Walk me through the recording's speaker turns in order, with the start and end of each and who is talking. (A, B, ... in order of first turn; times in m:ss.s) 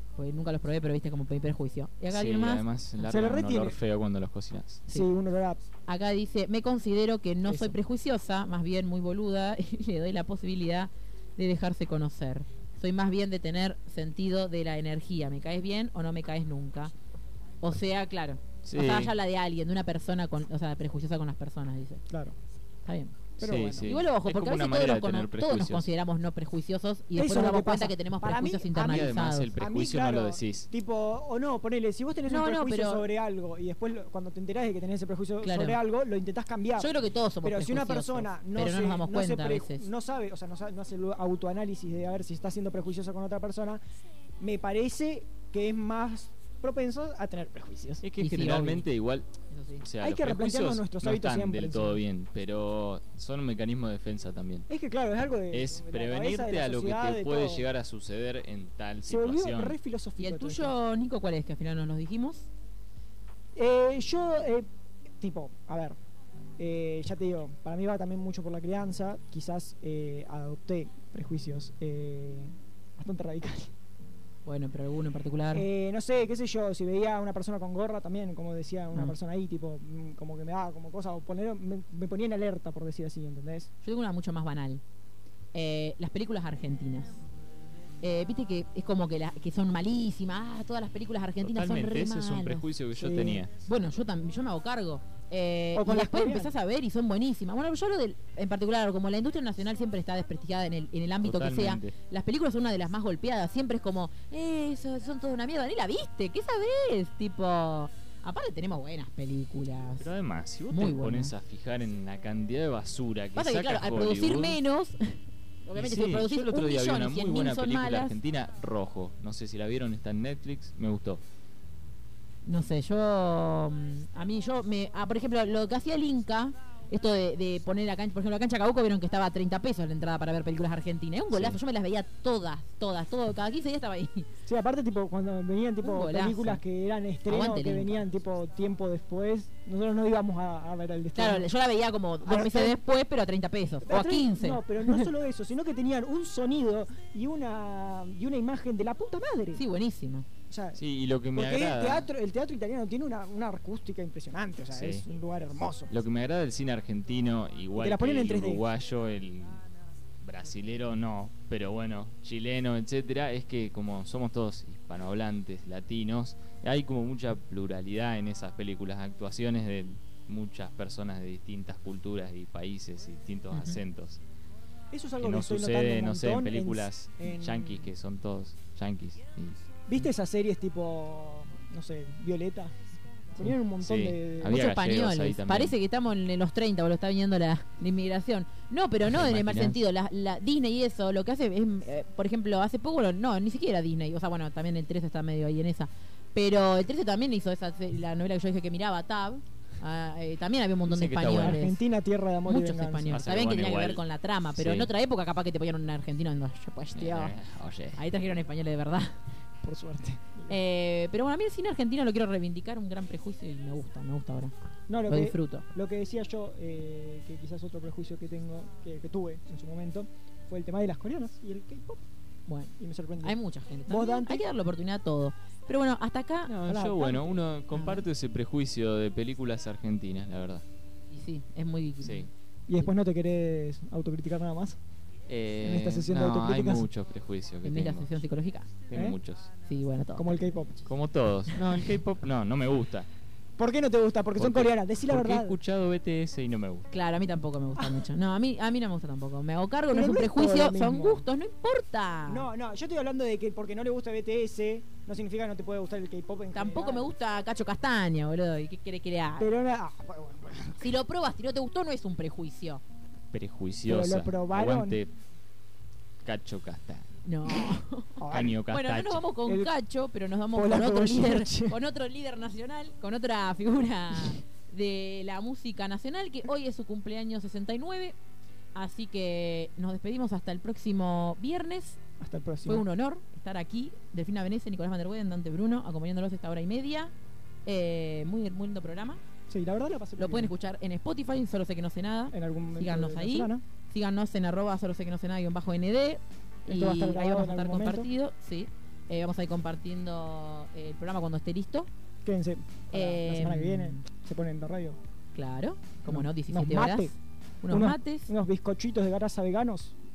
0:00.2-0:02.6 A
0:02.1-0:04.8 B
0:03.0-0:03.8 C
0:04.9-0:05.6 C
0:05.8-0:16.9 A
0:07.4-0:07.8 C
0:17.6-0:22.0 A
0:18.6-0:19.1 B
0:22.1-0:22.4 C
0:22.8-0:23.2 A
0:23.4-0:24.0 C
0:23.4-0:25.9 B
0:23.8-0:29.5 A
0:27.2-0:36.9 C
0:28.7-0:30.7 B
0:32.3-0:33.0 A
0:35.4-0:35.8 A
0:36.8-0:39.8 A
0:37.4-0:43.8 C
0:44.4-0:48.0 C
0:48.0-0:49.3 B
0:48.1-0:48.8 A
0:49.5-0:49.8 A
0:49.8-0:54.7 B
0:50.0-0:52.0 C
0:54.7-0:57.6 C
0:55.5-0:59.8 B
0:59.1-1:00.7 C
1:00.2-1:02.5 A
1:03.6-1:04.7 C
1:05.2-1:06.0 C
1:06.6-1:13.7 C
1:14.4-1:15.6 A
1:15.5-1:23.7 C
1:23.8-1:24.8 A
1:25.5-1:27.2 A
1:28.0-1:32.6 A
1:31.4-1:33.5 B
1:33.0-1:33.4 C
1:33.6-1:50.0 A
1:35.7-1:36.5 C
1:41.2-1:42.0 B
1:50.0-1:54.6 B
1:50.7-1:51.3 A
1:53.4-1:58.2 A
1:55.7-2:01.2 B
2:02.4-2:14.3 A
2:11.3-2:11.6 B
2:14.5-2:21.5 C
2:15.8-2:16.6 A
2:17.3-2:18.0 A
2:21.2-2:25.1 A
2:22.2-2:22.8 C
2:23.8-2:29.6 C
2:29.5-2:30.2 A
2:30.5-2:30.8 C
2:30.8-2:32.1 B
2:31.3-2:35.9 C
2:34.7-2:35.0 B
2:35.9-2:39.6 B
2:37.8-2:38.6 C
2:40.2-2:54.2 B
2:53.5-2:53.8 A
2:54.9-2:57.8 C
2:55.2-2:59.6 B
2:59.9-3:02.7 C
3:03.4-3:04.6 C
3:03.8-3:05.7 B
3:04.4-3:21.8 A
3:09.1-3:09.8 B
3:20.9-3:21.6 B
3:21.3-3:23.2 C
3:22.4-3:27.3 A
3:23.1-3:24.0 B
3:24.6-3:24.9 B
3:26.9-3:28.0 B
3:28.0-3:29.2 A
3:29.6-3:30.5 C
3:30.5-3:34.5 A
3:34.9-3:42.0 C
3:35.1-3:35.6 A
3:42.5-3:46.5 A
3:42.8-3:44.4 C
3:46.5-3:50.6 B
3:46.6-3:47.3 C
3:47.7-3:48.0 A
3:51.1-3:52.9 A
3:52.0-3:52.3 B
3:52.7-3:54.8 C
3:55.3-3:58.1 B
3:55.6-3:56.8 C
3:57.6-3:58.7 A
3:58.9-3:59.5 B
3:59.7-4:00.5 A
4:00.2-4:00.8 C
4:00.8-4:03.1 B
4:03.6-4:05.5 C
4:04.4-4:06.9 B
4:06.9-4:12.5 A
4:07.8-4:08.0 C
4:09.9-4:11.2 C
4:12.2-4:17.1 C
4:16.5-4:19.5 A
4:19.4-4:21.0 C
4:20.8-4:22.8 A
4:23.3-4:25.1 B
4:23.8-4:25.0 C
4:26.2-4:27.1 B
4:27.2-4:28.2 A
4:28.2-4:28.6 C
4:28.3-4:29.2 B
4:28.7-4:38.2 A
4:30.5-4:31.8 C
4:38.7-4:42.0 A
4:42.2-4:42.8 C
4:42.6-4:47.1 A
4:47.6-4:49.2 A
4:49.5-4:50.5 C
4:50.2-5:01.9 A
4:52.3-4:53.6 C
4:56.7-4:58.1 C
5:02.2-5:05.0 C
5:02.9-5:04.0 A
5:05.3-5:08.3 A
5:06.0-5:07.1 C
5:07.7-5:09.9 C